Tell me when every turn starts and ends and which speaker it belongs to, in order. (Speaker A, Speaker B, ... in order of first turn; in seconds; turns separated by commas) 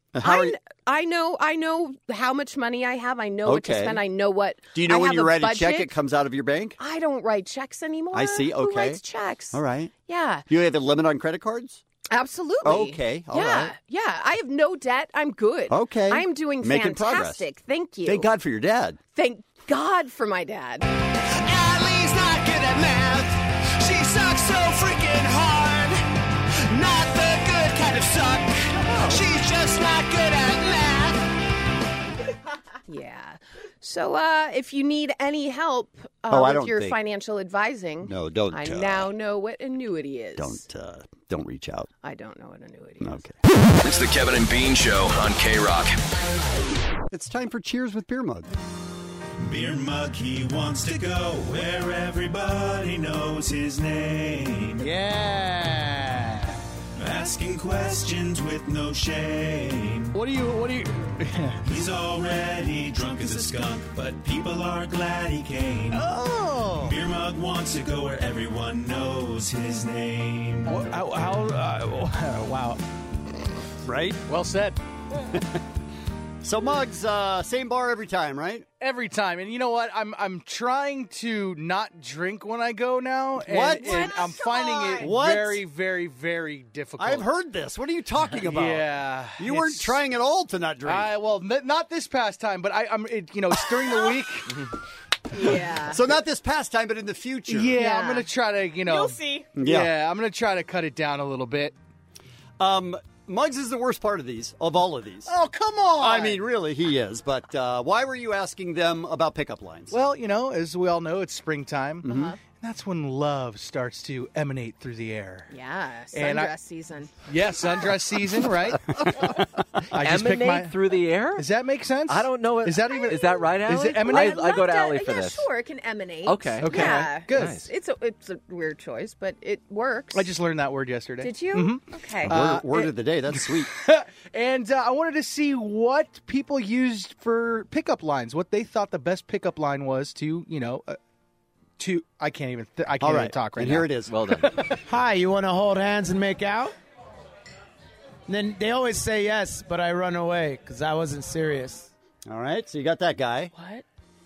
Speaker A: 0.1-0.6, Speaker B: 0.2-5.9, Speaker A: 3.4-4.0, Speaker A: 4.7-6.8, Speaker B: 6.8-10.5, Speaker A: 8.1-9.0, Speaker A: 9.5-9.9, Speaker A: 10.5-11.8, Speaker B: 12.1-18.3, Speaker A: 12.6-13.7, Speaker A: 15.7-17.4, Speaker A: 18.0-19.0, Speaker B: 19.1-20.9, Speaker C: 21.4-26.0, Speaker C: 26.7-31.2, Speaker B: 28.8-29.2, Speaker B: 32.9-40.6, Speaker A: 36.3-37.0, Speaker A: 38.0-39.1, Speaker A: 40.4-41.9, Speaker B: 42.0-43.2, Speaker A: 43.0-43.4, Speaker D: 43.8-46.0, Speaker A: 47.1-48.5, Speaker E: 49.4-54.8, Speaker F: 54.8-56.6, Speaker E: 57.0-60.1, Speaker F: 60.1-61.7, Speaker E: 61.7-66.0, Speaker F: 65.9-66.7, Speaker A: 66.0-66.9, Speaker E: 66.9-70.7, Speaker F: 70.7-72.8, Speaker A: 73.8-74.2, Speaker F: 74.2-74.8, Speaker A: 76.4-78.7, Speaker F: 78.8-87.3, Speaker A: 83.4-84.1, Speaker B: 83.8-85.0, Speaker A: 85.0-85.6, Speaker A: 87.0-91.1, Speaker F: 88.4-90.0, Speaker F: 90.8-94.6, Speaker B: 95.4-96.0, Speaker A: 95.8-97.8, Speaker F: 97.5-101.7, Speaker B: 97.8-98.2, Speaker B: 99.0-99.4, Speaker A: 99.5-99.9, Speaker A: 102.6-105.3, Speaker F: 105.3-106.4, Speaker A: 106.0-109.9, Speaker F: 109.9-115.5, Speaker B: 112.0-112.3, Speaker A: 112.0-112.3, Speaker B: 115.5-117.1, Speaker F: 116.1-116.5, Speaker F: 117.3-119.3, Speaker F: 119.9-120.8, Speaker G: 120.0-121.5, Speaker F: 121.3-124.5, Speaker G: 122.1-125.4, Speaker B: 122.9-123.5, Speaker B: 124.0-130.3, Speaker G: 126.2-127.7, Speaker F: 126.6-127.6, Speaker F: 130.1-141.0, Speaker B: 131.2-132.3, Speaker A: 132.3-133.7, Speaker F: 141.8-144.8, Speaker A: 143.0-144.1, Speaker G: 144.1-144.6, Speaker H: 144.8-146.7, Speaker H: 148.3-151.9, Speaker A: 152.2-153.5, Speaker B: 153.5-153.8